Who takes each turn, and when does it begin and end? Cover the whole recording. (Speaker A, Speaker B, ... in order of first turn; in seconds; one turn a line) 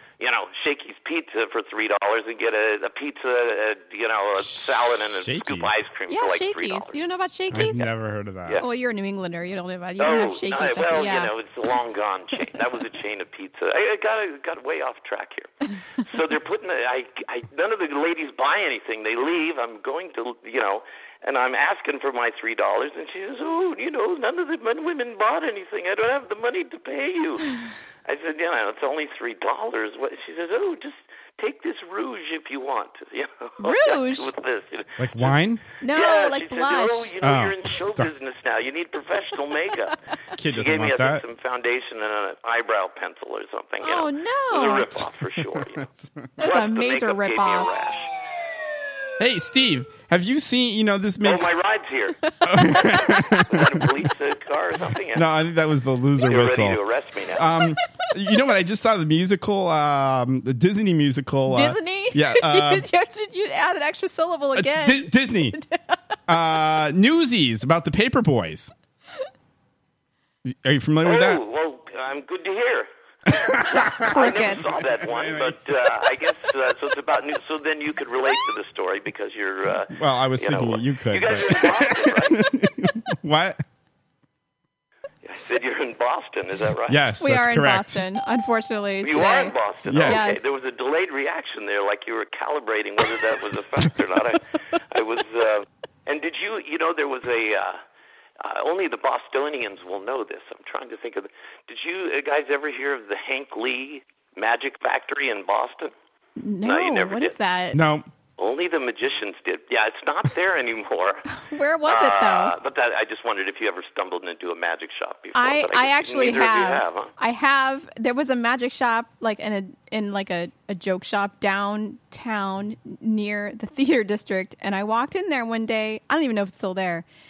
Speaker A: 0.2-7.0
Speaker B: 4.4-5.8
Speaker C: 6.1-7.9
Speaker B: 7.5-8.6
Speaker C: 8.5-11.3
Speaker A: 10.0-35.4
Speaker C: 33.6-34.3
Speaker B: 35.0-35.6
Speaker C: 35.8-37.1
Speaker A: 35.9-39.9
Speaker B: 37.2-38.1
Speaker B: 40.4-41.2
Speaker A: 40.4-45.9
Speaker C: 43.8-45.0
Speaker C: 46.4-47.7
Speaker A: 46.4-48.1
Speaker B: 49.2-51.5
Speaker A: 51.2-52.2
Speaker B: 52.4-53.8
Speaker C: 52.5-53.1
Speaker A: 53.4-55.3
Speaker B: 55.1-56.8
Speaker A: 56.2-57.5
Speaker B: 57.3-62.9
Speaker C: 61.5-66.0
Speaker B: 64.5-65.5
Speaker B: 66.3-68.7
Speaker B: 70.4-71.4
Speaker A: 71.0-82.4
Speaker B: 73.3-75.6
Speaker C: 74.0-74.7
Speaker B: 79.9-83.6
Speaker A: 85.2-87.0
Speaker B: 86.9-88.0
Speaker C: 87.2-90.4
Speaker A: 89.0-97.8
Speaker B: 89.8-90.2
Speaker A: 98.4-105.9
Speaker C: 106.4-107.8
Speaker A: 106.6-107.3
Speaker B: 107.7-108.1
Speaker A: 108.4-111.3
Speaker C: 111.4-112.5
Speaker A: 111.8-117.1
Speaker C: 115.3-127.0